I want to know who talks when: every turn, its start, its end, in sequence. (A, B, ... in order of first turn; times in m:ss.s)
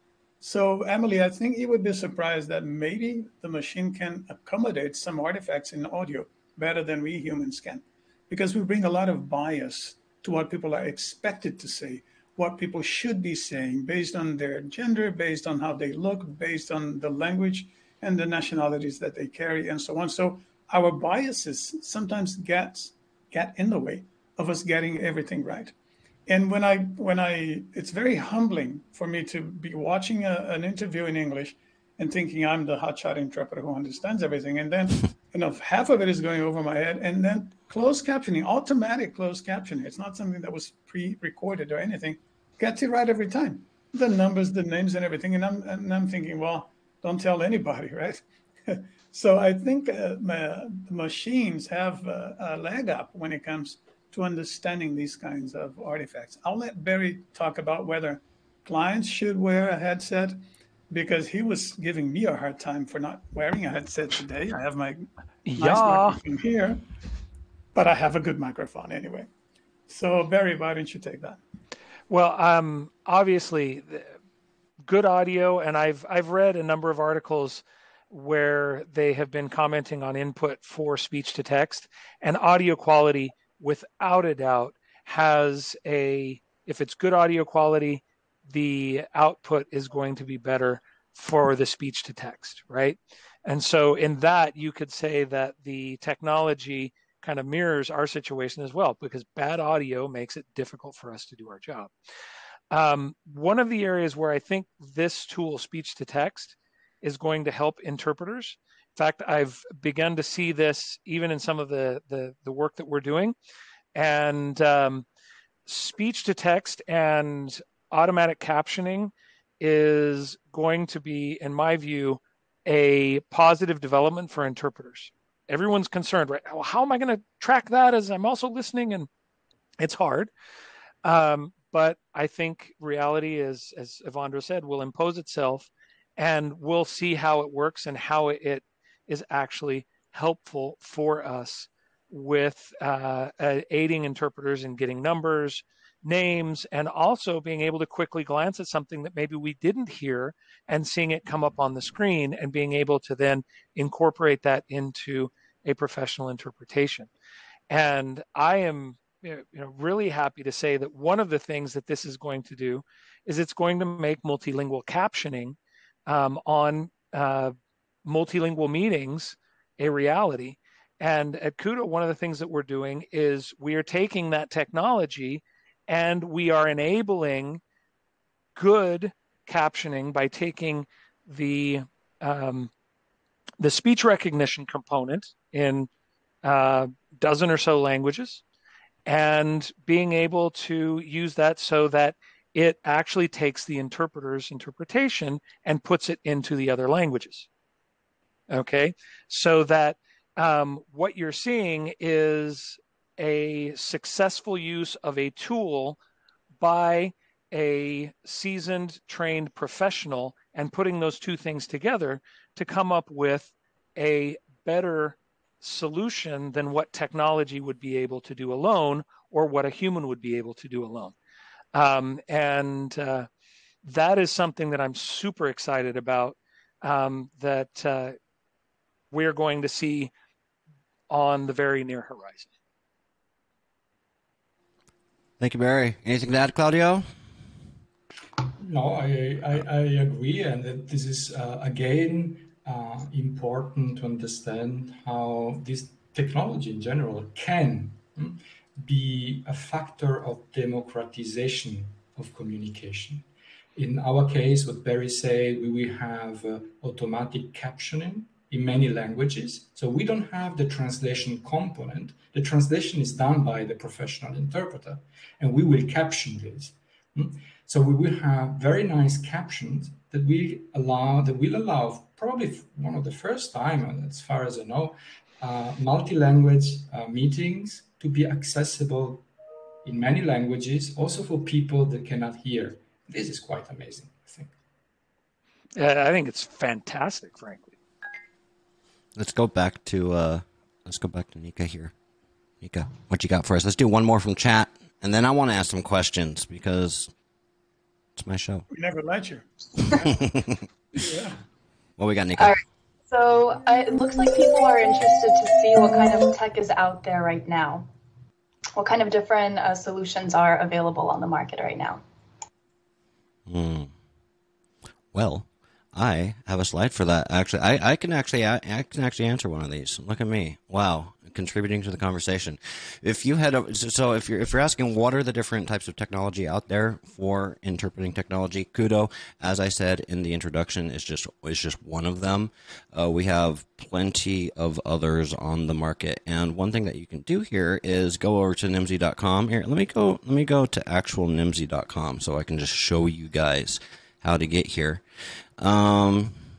0:00.4-0:25.7 A
0:26.3-1:06.8 A
1:05.4-1:06.2 B
1:07.7-1:09.3 A
1:09.9-1:11.4 A
1:12.1-1:14.1 B
1:14.8-1:41.9 B
1:42.7-1:53.3 B
1:53.9-1:55.0 B
1:55.6-2:09.1 B
2:09.8-2:10.3 B
2:11.0-2:37.1 B
2:37.7-2:57.6 B
2:58.5-3:02.7 B
3:03.6-3:05.9 B
3:06.4-3:08.4 B
3:09.0-3:17.5 B
3:18.5-3:26.0 B
3:26.6-3:41.1 B
3:41.7-3:43.3 B
3:43.8-3:48.2 B
3:49.1-3:50.1 B
3:51.1-3:52.5 B
3:55.4-3:57.0 C
3:58.6-4:39.2 D
4:39.8-4:44.5 D
4:45.8-4:47.8 B
4:49.1-4:51.9 C
4:52.6-4:57.1 C
4:58.2-4:58.6 C
4:58.7-5:00.3 A
5:00.1-5:00.5 C
5:01.0-5:01.4 A
5:02.0-5:02.6 C
5:03.1-5:07.8 E
5:08.8-5:12.0 E
5:13.5-5:13.9 C
5:15.1-5:45.0 C
5:45.6-5:46.4 C